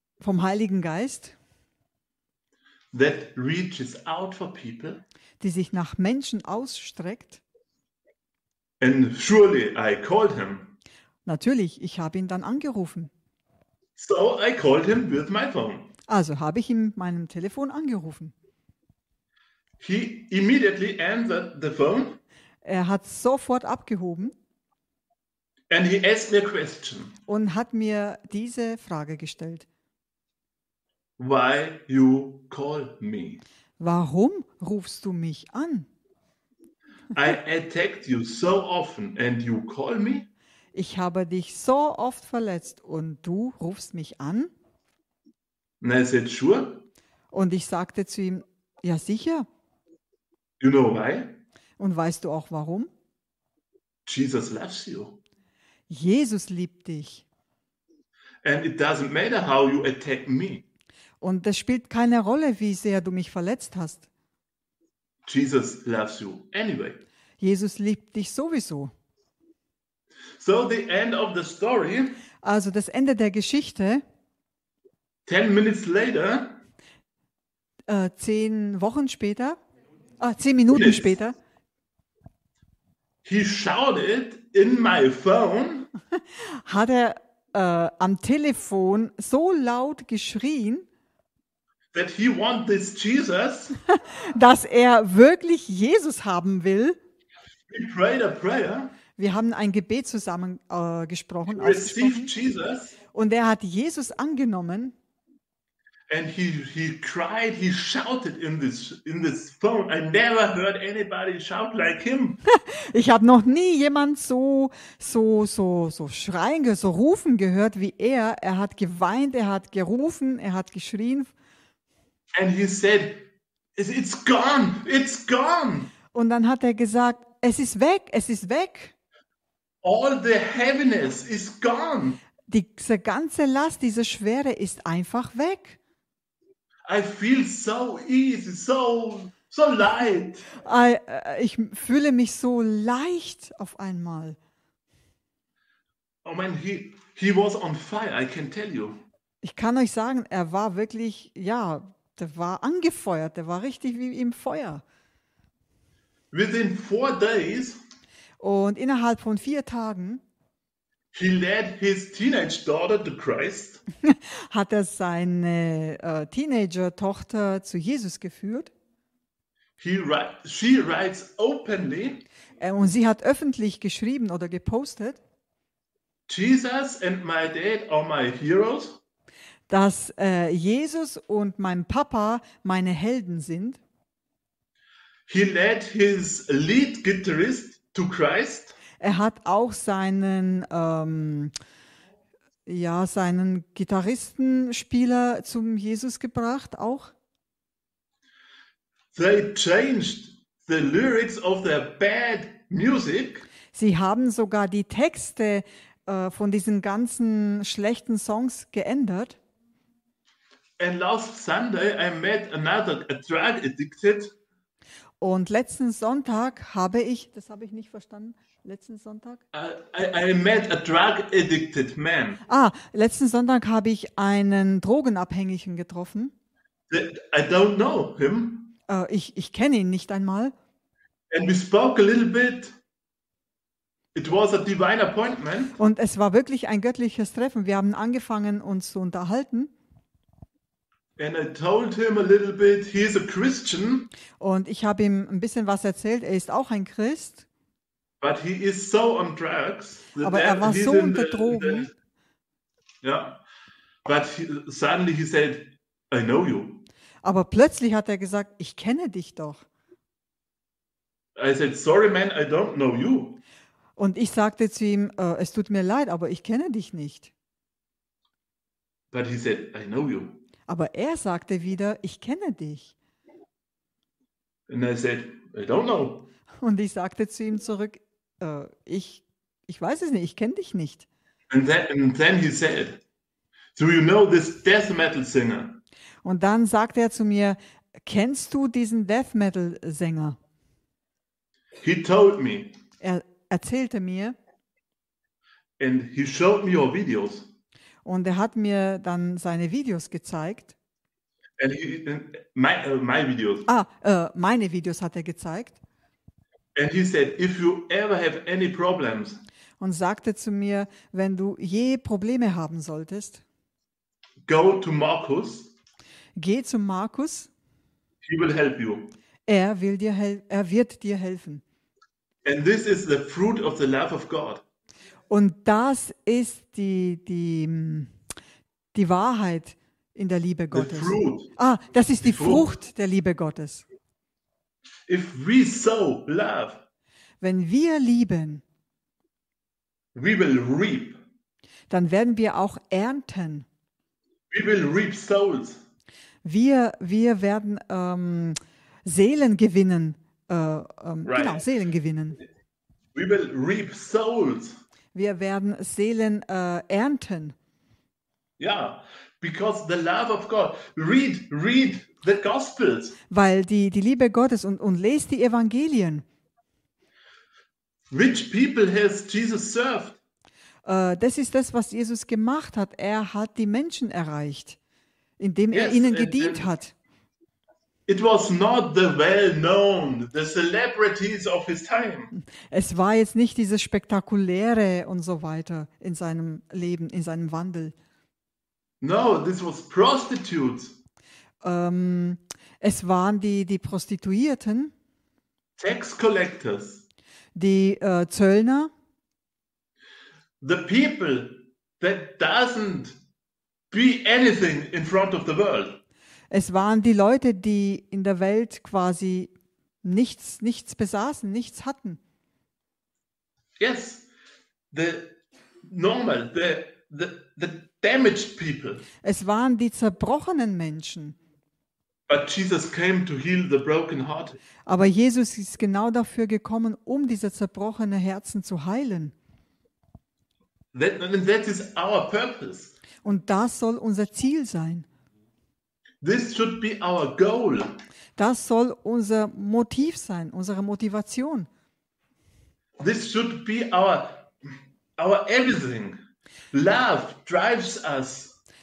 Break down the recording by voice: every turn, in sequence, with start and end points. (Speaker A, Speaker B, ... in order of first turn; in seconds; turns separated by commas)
Speaker A: 0.2-1.4, Speaker B: 2.9-5.0, Speaker A: 5.4-7.4, Speaker B: 8.8-10.8, Speaker A: 11.2-13.1, Speaker B: 14.0-15.9, Speaker A: 16.1-18.3, Speaker B: 19.8-22.2, Speaker A: 22.6-24.4, Speaker B: 25.7-27.2, Speaker A: 27.3-29.7, Speaker B: 31.2-33.4, Speaker A: 33.8-35.9, Speaker B: 37.1-40.3, Speaker A: 40.7-44.5, Speaker B: 45.8-46.9, Speaker A: 47.3-49.5, Speaker B: 50.6-51.4, Speaker A: 51.8-52.9, Speaker B: 54.1-55.2, Speaker A: 55.9-57.2, Speaker B: 58.4-60.6, Speaker A: 61.2-64.1, Speaker B: 65.3-67.0, Speaker A: 67.4-68.9, Speaker B: 70.4-72.2, Speaker A: 72.4-74.0, Speaker B: 75.3-76.6, Speaker A: 77.9-79.6, Speaker A: 80.2-81.4, Speaker B: 80.7-81.2, Speaker B: 83.2-85.9, Speaker A: 86.3-90.9, Speaker B: 91.9-93.8, Speaker A: 93.9-97.0, Speaker B: 97.7-99.0, Speaker A: 99.2-102.3, Speaker B: 101.5-103.0, Speaker A: 103.1-105.0, Speaker B: 106.1-112.4, Speaker A: 112.5-121.3, Speaker B: 122.3-125.9, Speaker A: 126.1-128.9, Speaker B: 129.8-132.2, Speaker A: 132.5-135.8, Speaker B: 136.9-140.5, Speaker A: 140.6-144.4, Speaker B: 146.2-149.0, Speaker A: 149.4-154.8, Speaker B: 156.3-157.8, Speaker A: 158.4-160.2, Speaker B: 161.1-163.8, Speaker A: 164.0-168.7, Speaker B: 169.8-172.3, Speaker A: 172.6-175.2, Speaker B: 176.3-179.0, Speaker A: 179.7-183.8, Speaker B: 185.3-188.8, Speaker A: 189.0-191.5, Speaker A: 192.7-197.1, Speaker B: 199.1-203.5, Speaker A: 203.7-209.4, Speaker B: 210.8-214.3, Speaker A: 215.2-219.4, Speaker B: 219.5-222.4, Speaker A: 222.5-226.3, Speaker B: 226.9-228.7, Speaker A: 228.9-230.5, Speaker B: 231.3-232.8, Speaker B: 234.1-235.8, Speaker A: 235.8-239.7, Speaker B: 241.2-244.1, Speaker A: 244.4-247.5, Speaker B: 248.2-251.9, Speaker A: 250.2-251.9, Speaker B: 253.0-253.4, Speaker B: 254.1-256.9, Speaker A: 257.2-259.6, Speaker B: 261.4-263.4, Speaker A: 264.0-267.3, Speaker B: 269.1-270.4, Speaker A: 270.7-272.9, Speaker B: 274.7-276.3, Speaker A: 276.6-281.1, Speaker B: 281.5-283.0, Speaker B: 283.8-285.8, Speaker A: 286.2-290.4, Speaker B: 291.8-292.8, Speaker A: 293.0-294.4, Speaker B: 295.8-297.5, Speaker A: 298.1-300.8, Speaker B: 301.6-303.7, Speaker A: 303.7-305.8, Speaker B: 306.8-309.4, Speaker A: 309.8-313.4, Speaker B: 314.5-315.7, Speaker A: 316.4-317.5, Speaker B: 318.2-319.1, Speaker A: 319.5-321.6, Speaker B: 322.4-324.6, Speaker A: 325.3-328.1, Speaker A: 328.9-333.9, Speaker B: 330.7-331.5, Speaker B: 332.2-332.7, Speaker B: 335.1-336.8, Speaker A: 337.4-338.6, Speaker B: 340.1-341.2, Speaker A: 341.9-343.7, Speaker B: 344.5-345.8, Speaker A: 346.4-352.4, Speaker B: 351.2-351.6, Speaker B: 353.1-354.8, Speaker A: 355.1-357.6, Speaker B: 358.6-363.2, Speaker A: 363.3-366.2, Speaker B: 368.1-370.2, Speaker A: 370.9-374.8, Speaker A: 375.4-376.9, Speaker B: 375.7-376.7, Speaker B: 378.1-382.3, Speaker A: 382.3-387.9, Speaker B: 389.0-390.9, Speaker A: 391.6-394.9, Speaker B: 395.8-397.0, Speaker A: 397.6-398.9, Speaker B: 400.6-403.2, Speaker B: 403.9-406.0, Speaker A: 406.5-409.5, Speaker A: 410.0-412.2, Speaker B: 413.8-414.3, Speaker B: 414.9-419.1, Speaker A: 419.2-421.4, Speaker B: 422.3-424.6, Speaker A: 424.9-429.3, Speaker B: 430.9-432.9, Speaker A: 433.2-435.1, Speaker B: 436.2-438.0, Speaker A: 438.4-441.7, Speaker B: 443.0-444.5, Speaker B: 445.2-446.2, Speaker B: 446.7-448.6